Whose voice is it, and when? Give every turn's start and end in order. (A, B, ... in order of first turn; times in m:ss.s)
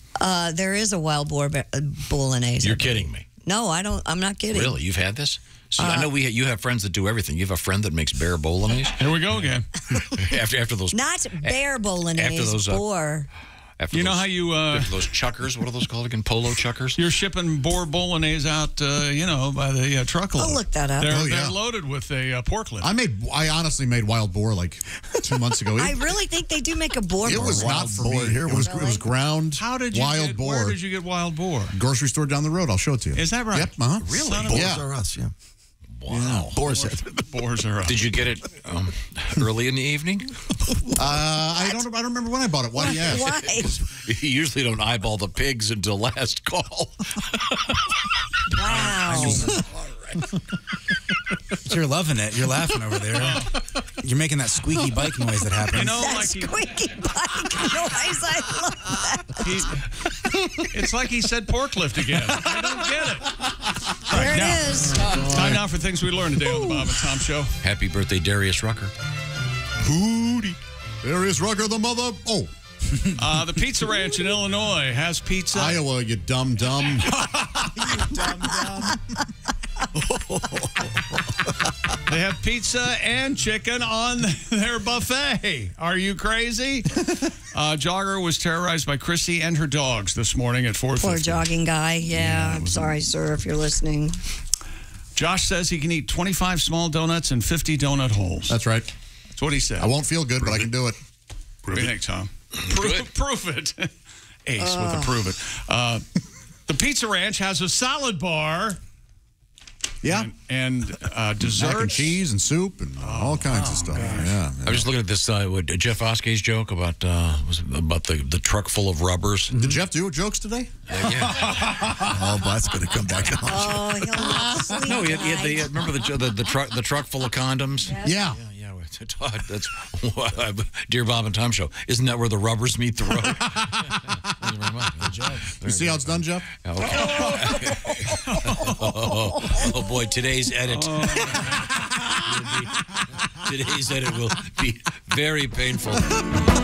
0:00.2-0:04.8 A
0:02.6-0:03.2 B
0:04.5-0:09.1 B
0:05.8-0:06.1 A
0:09.0-0:09.7 C
0:10.0-0:11.6 B
0:10.9-0:13.3 A
0:12.1-0:12.8 B
0:13.8-0:17.0 B
0:13.9-0:15.0 C
0:17.0-0:22.9 C
0:20.4-0:21.2 A
0:21.0-0:21.6 D
0:22.8-0:26.1 D
0:25.8-0:29.1 A
0:27.2-0:30.8 D
0:27.3-0:28.8 E
0:29.6-0:31.7 C
0:31.7-0:34.9 D
0:33.2-0:34.8 C
0:34.0-0:35.3 E
0:36.0-0:36.6 B
0:36.1-0:37.2 E
0:36.6-0:38.1 C
0:37.9-0:40.4 B
0:41.0-0:43.5 D
0:42.8-0:43.8 A
0:43.0-0:47.9 B
0:48.5-0:49.6 A
0:49.1-0:49.5 F
0:51.6-0:56.1 F
0:53.2-0:53.5 C
0:55.7-0:56.6 C
0:55.9-0:59.7 A
0:59.4-0:59.8 C
1:00.7-1:07.5 C
1:04.1-1:05.3 A
1:05.0-1:05.7 D
1:06.4-1:07.0 A
1:07.6-1:08.9 B
1:09.8-1:10.6 C
1:11.0-1:12.5 D
1:13.2-1:15.8 C
1:15.5-1:17.3 D
1:17.8-1:18.9 F
1:20.0-1:20.9 E
1:22.1-1:31.5 C
1:31.0-1:34.2 A
1:32.1-1:33.0 C
1:35.2-1:38.6 C
1:38.5-1:38.9 D
1:39.4-1:40.6 C
1:39.8-1:41.0 D
1:41.7-1:43.9 C
1:42.6-1:43.1 B
1:44.5-1:46.0 C
1:44.6-1:45.2 A
1:46.7-1:48.8 C
1:50.0-1:50.3 D
1:50.1-1:52.2 C
1:51.4-1:54.9 D
1:53.0-1:54.4 C
1:54.6-1:59.8 B
1:59.5-2:01.0 D
2:00.9-2:01.9 B
2:01.9-2:04.0 E
2:03.4-2:05.7 A
2:04.2-2:04.8 D
2:04.8-2:21.6 B
2:07.9-2:08.1 A
2:08.0-2:08.4 D
2:15.6-2:16.5 D
2:16.8-2:18.0 A
2:20.7-2:21.7 C
2:22.2-2:26.1 B